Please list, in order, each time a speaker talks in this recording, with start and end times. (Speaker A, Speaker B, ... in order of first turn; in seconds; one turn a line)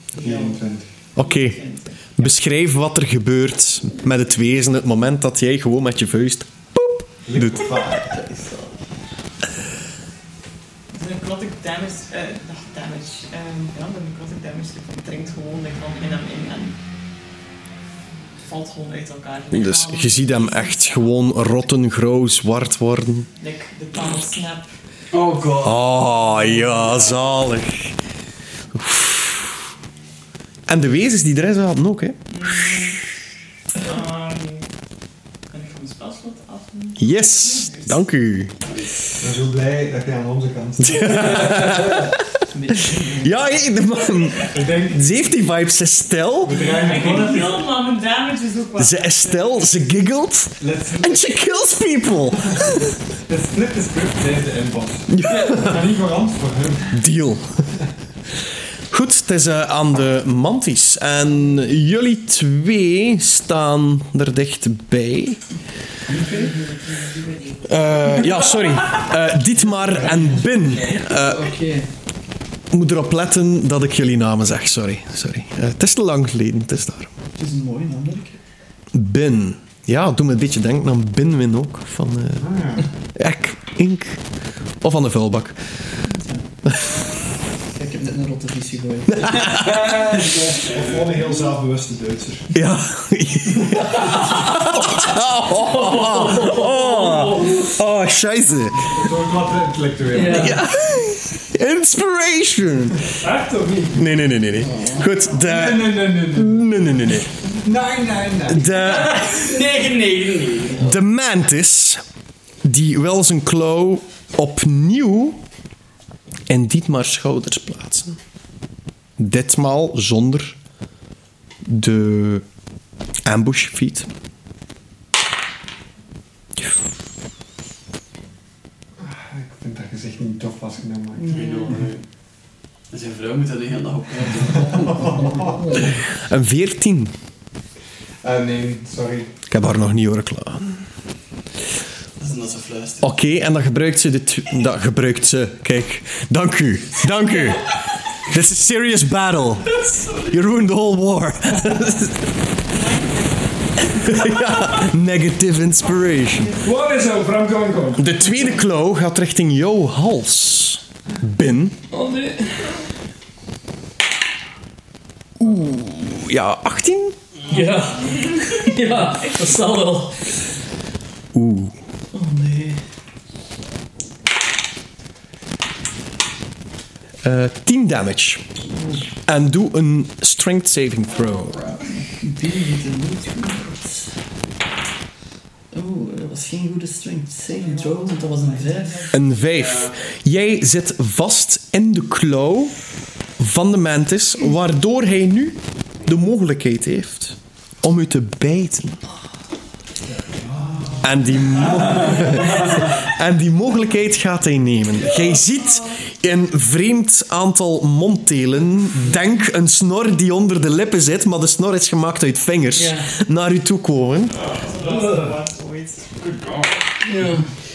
Speaker A: 0.1-0.9
Speaker B: 0.2-0.6
Speaker C: 1.1-1.6
Speaker B: 1.2-2.1
Speaker C: 2.2-7.8
Speaker A: 7.2-8.2
Speaker D: 8.0-8.7
Speaker B: 10.9-16.8
Speaker B: 18.4-21.2
Speaker C: 19.5-23.3
Speaker B: 23.4-24.7
Speaker E: 25.1-25.9
Speaker C: 25.6-27.9
Speaker C: 28.7-29.6
Speaker C: 30.7-32.2
Speaker B: 32.3-33.0
Speaker B: 33.8-34.7
Speaker B: 35.5-38.0
Speaker C: 37.0-38.5
Speaker E: 38.6-39.0
Speaker A: 39.2-41.9
Speaker C: 40.8-42.1
Speaker D: 42.5-43.4
Speaker C: 43.2-46.6
Speaker A: 44.5-45.0
Speaker A: 46.4-47.7
Speaker B: 46.6-49.8
Speaker C: 48.8-52.9
Speaker A: 50.6-51.4
Speaker A: 52.5-52.8
Speaker A: 53.3-56.9
Speaker C: 55.1-55.8
Speaker C: 56.9-57.5
Speaker C: 58.9-65.4
Speaker A: 66.2-66.5
Speaker B: 66.2-68.2
Speaker C: 67.6-71.5
Speaker D: 70.9-71.9
Speaker C: 72.7-77.1
Speaker D: 77.3-78.4
Speaker C: 78.9-82.4
Speaker A: 82.4-82.9
Speaker C: 83.1-84.2
Speaker C: 84.8-85.6
Speaker D: 87.7-89.5
Speaker C: 89.1-89.9
Speaker E: 89.5-91.1
Speaker F: 90.0-92.5
Speaker C: 92.5-99.0
Speaker E: 95.9-97.5
Speaker D: 96.3-97.4
Speaker A: 98.8-100.6
Speaker D: 100.1-100.7
Speaker C: 100.2-103.1
Speaker F: 103.2-104.0
Speaker C: 103.9-107.3
Speaker D: 104.7-105.0
Speaker A: 105.5-106.5
Speaker A: 107.5-108.7
Speaker C: 108.5-109.5
Speaker E: 108.7-110.9
Speaker C: 110.7-112.0
Speaker C: 112.6-115.4
Speaker C: 116.5-118.2
Speaker C: 119.2-120.6
Speaker C: 121.6-122.4
Speaker C: 123.2-124.1
Speaker A: 129.0-131.9
Speaker D: 131.2-131.8
Speaker E: 131.3-132.0
Speaker E: 132.9-135.3
Speaker A: 134.7-135.8
Speaker D: 135.4-135.8
Speaker C: 135.9-137.1
Speaker A: 138.2-139.3
Speaker C: 139.5-140.8
Speaker E: 142.2-143.1
Speaker C: 143.0-149.7
Speaker C: 150.3-152.2
Speaker B: 152.7-154.3
Speaker C: 153.9-156.6
Speaker B: 156.0-156.6
Speaker F: 156.6-158.2
Speaker C: 157.9-161.8
Speaker D: 161.9-162.8
Speaker C: 165.4-167.1
Speaker D: 167.5-170.3
Speaker C: 171.3-171.7
Speaker D: 172.1-172.8
Speaker C: 177.2-178.4
Speaker C: 179.2-181.7
Speaker E: 181.3-181.8
Speaker D: 182.1-184.1
Speaker D: 185.7-189.1
Speaker B: 187.5-189.3
Speaker C: 189.1-192.7
Speaker E: 189.4-189.9
Speaker C: 193.4-199.0
Speaker A: 200.1-201.1
Speaker C: 201.0-214.4
Speaker B: 205.6-205.9
Speaker D: 212.7-213.1
Speaker B: 214.4-216.1
Speaker E: 216.2-216.8
Speaker D: 217.0-217.5